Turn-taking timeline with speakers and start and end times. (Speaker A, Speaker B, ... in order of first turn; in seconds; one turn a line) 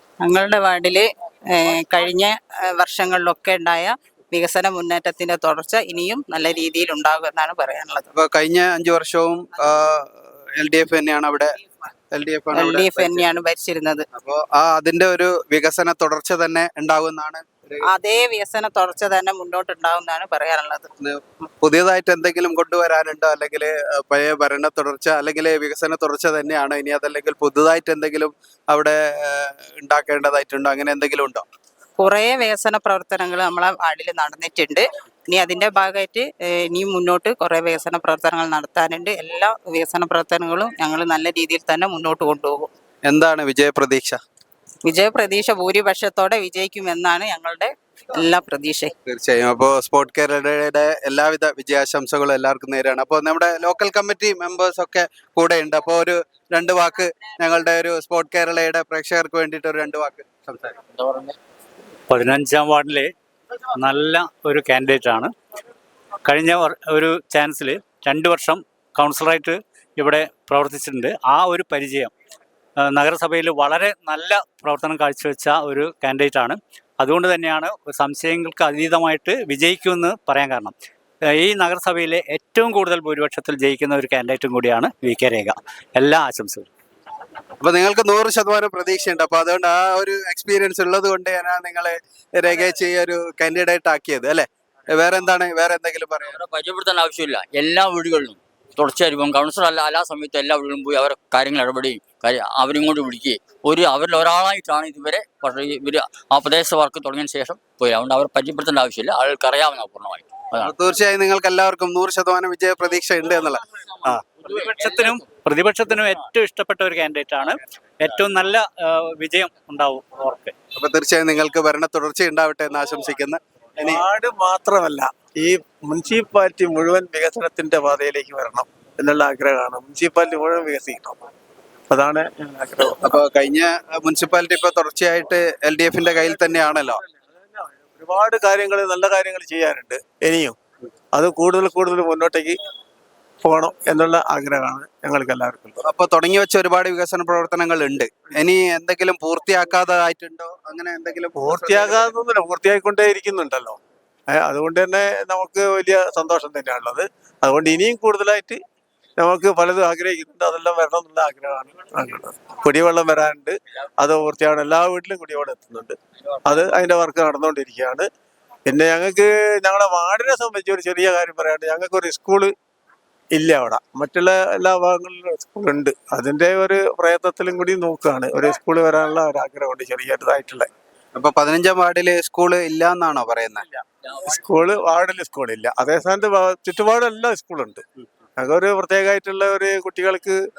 Speaker A: 0.2-8.1
Speaker B: 8.1-11.5
Speaker B: 12.1-13.3
Speaker A: 12.5-14.0
Speaker B: 14.1-17.8
Speaker A: 17.9-20.9
Speaker B: 21.0-31.4
Speaker A: 32.0-42.7
Speaker B: 43.1-44.2
Speaker A: 44.8-48.9
Speaker B: 49.1-60.8
Speaker C: 60.9-61.4
Speaker D: 62.1-63.1
Speaker D: 63.8-65.3
Speaker D: 66.2-72.1
Speaker D: 72.8-80.7
Speaker D: 81.3-86.7
Speaker B: 87.6-96.4
Speaker C: 96.2-110.7
Speaker B: 110.6-113.6
Speaker D: 114.0-120.5
Speaker C: 114.5-114.9
Speaker B: 120.8-124.0
Speaker E: 123.8-131.2
Speaker E: 131.9-133.1
Speaker B: 133.0-137.0
Speaker E: 136.1-140.6
Speaker E: 141.1-142.6
Speaker E: 143.4-145.8
Speaker B: 145.8-152.1
Speaker E: 151.3-153.8
Speaker E: 154.3-158.6
Speaker E: 159.2-168.1
Speaker E: 168.7-172.5
Speaker E: 173.3-180.7
Speaker B: 181.2-183.7
Speaker E: 184.2-187.8
Speaker E: 188.4-190.4